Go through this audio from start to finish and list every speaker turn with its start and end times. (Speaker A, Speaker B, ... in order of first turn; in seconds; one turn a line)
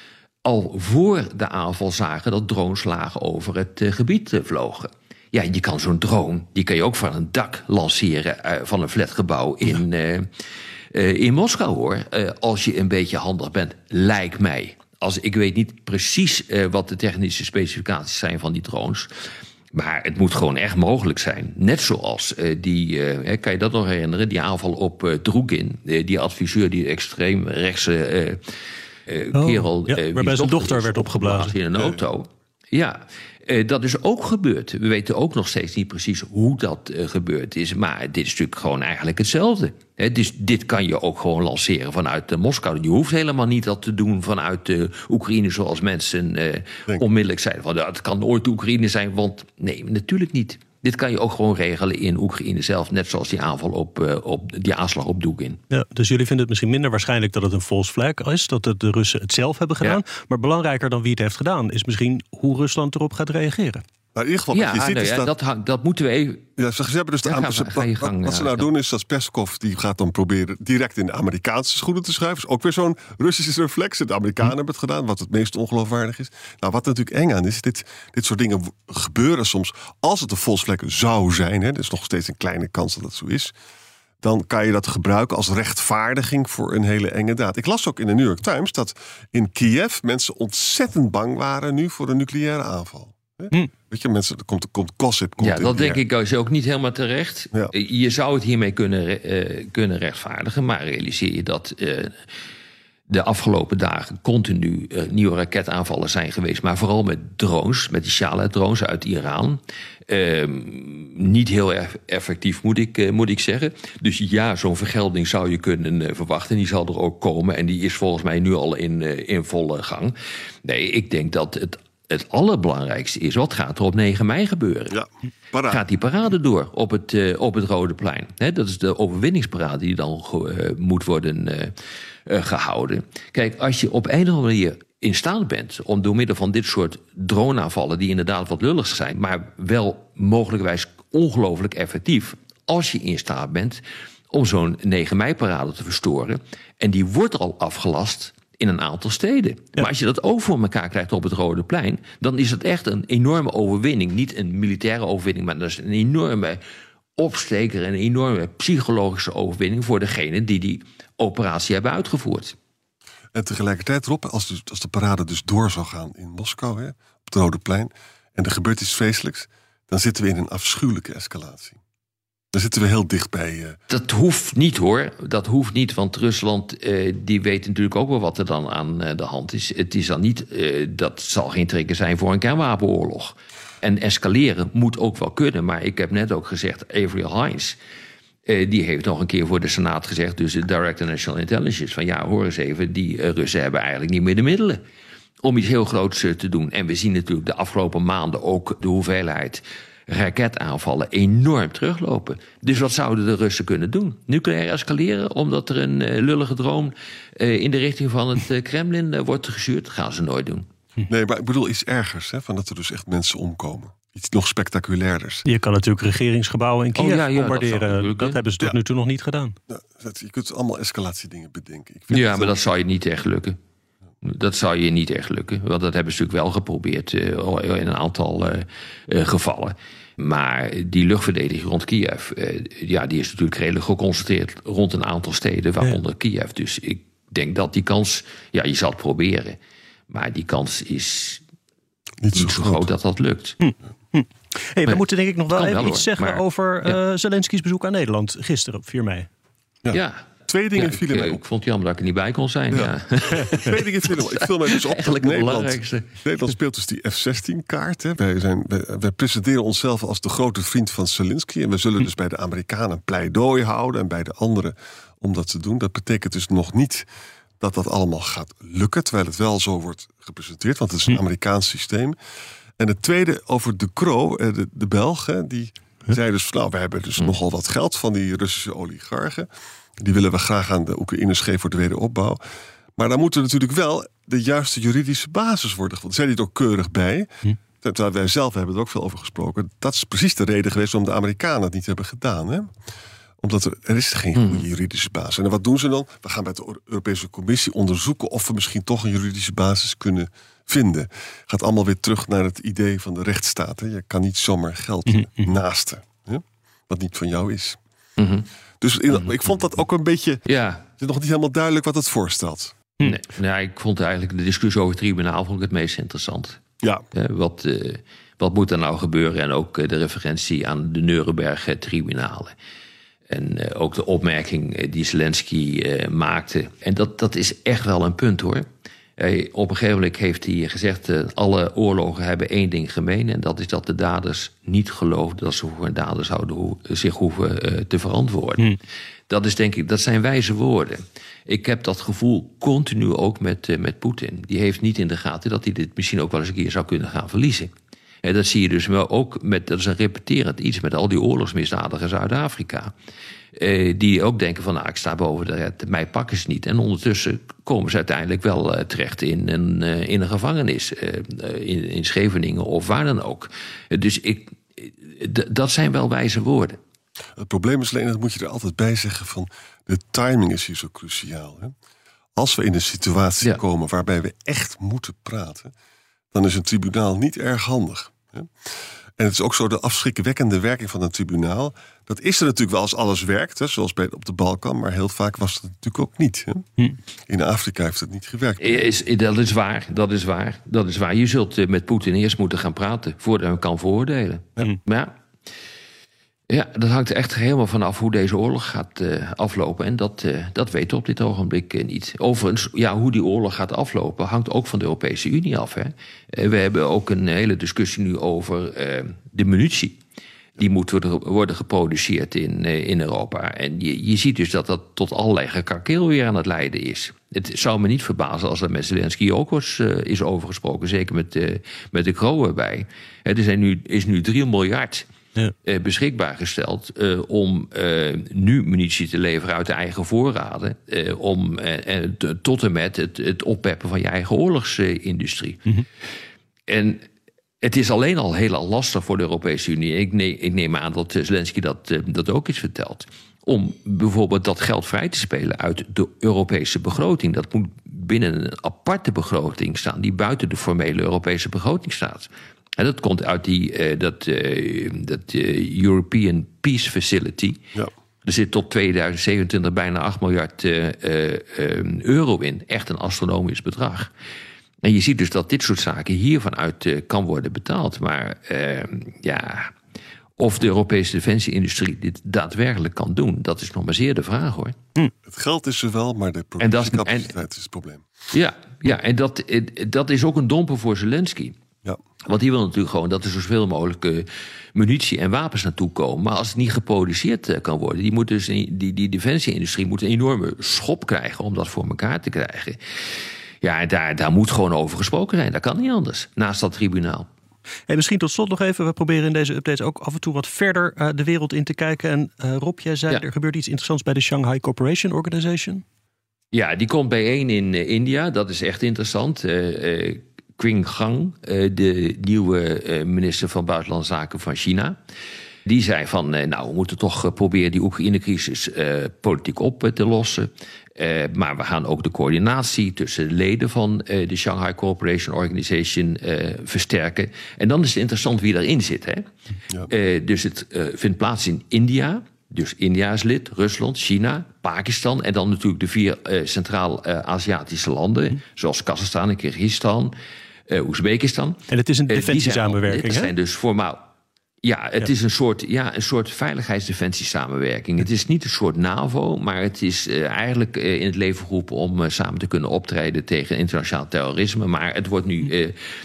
Speaker A: 0.4-10.3
Speaker A: 10.9-19.1
Speaker A: 19.7-28.4
Speaker A: 29.1-55.6
Speaker B: 29.4-31.5
Speaker B: 55.7-63.8
Speaker C: 64.2-65.3
Speaker A: 64.5-66.5
Speaker C: 66.6-83.5
Speaker A: 67.2-68.7
Speaker C: 84.2-96.0
Speaker A: 95.4-102.2
Speaker A: 103.1-125.0
Speaker C: 124.9-125.8
Speaker A: 125.7-131.7
Speaker A: 132.3-156.6
Speaker A: 157.2-162.6
Speaker C: 163.3-171.8
Speaker C: 172.5-173.8
Speaker A: 173.9-187.8
Speaker A: 188.5-194.8
Speaker A: 195.4-210.7
Speaker C: 211.1-215.4
Speaker B: 215.5-219.6
Speaker A: 216.9-218.4
Speaker C: 219.7-222.6
Speaker A: 222.1-223.6
Speaker A: 224.2-239.6
Speaker A: 240.1-241.4
Speaker C: 242.2-242.9
Speaker A: 242.3-243.6
Speaker B: 243.6-249.3
Speaker A: 244.9-247.0
Speaker C: 249.8-251.4
Speaker A: 249.9-256.1
Speaker C: 252.7-267.1
Speaker C: 267.6-272.2
Speaker C: 272.8-279.5
Speaker C: 280.0-282.4
Speaker C: 283.0-292.7
Speaker C: 293.4-307.8
Speaker A: 294.4-294.7
Speaker B: 305.1-305.6
Speaker A: 308.2-308.5
Speaker C: 308.8-310.4
Speaker A: 309.1-309.5
Speaker A: 310.5-310.9
Speaker C: 311.0-312.8
Speaker A: 313.0-316.6
Speaker A: 317.1-322.5
Speaker A: 323.3-328.7
Speaker A: 329.2-338.7
Speaker A: 339.3-347.7
Speaker A: 348.2-352.9
Speaker A: 353.6-366.8
Speaker C: 367.4-371.7
Speaker C: 372.4-375.7
Speaker C: 376.3-378.5
Speaker C: 379.2-386.6
Speaker C: 387.3-388.9
Speaker A: 388.6-395.1
Speaker A: 396.5-410.0
Speaker A: 410.6-425.1
Speaker A: 425.6-435.6
Speaker A: 436.7-437.0
Speaker A: 437.6-457.6
Speaker A: 458.2-464.1
Speaker A: 464.8-469.7
Speaker A: 470.4-474.8
Speaker C: 475.2-478.0
Speaker A: 476.6-477.3
Speaker A: 478.3-481.6
Speaker A: 482.2-492.8
Speaker A: 493.6-497.3
Speaker B: 497.9-505.8
Speaker A: 506.5-515.0
Speaker A: 515.6-529.3
Speaker A: 529.9-540.1
Speaker A: 540.7-544.1
Speaker B: 541.7-543.3
Speaker A: 544.6-555.8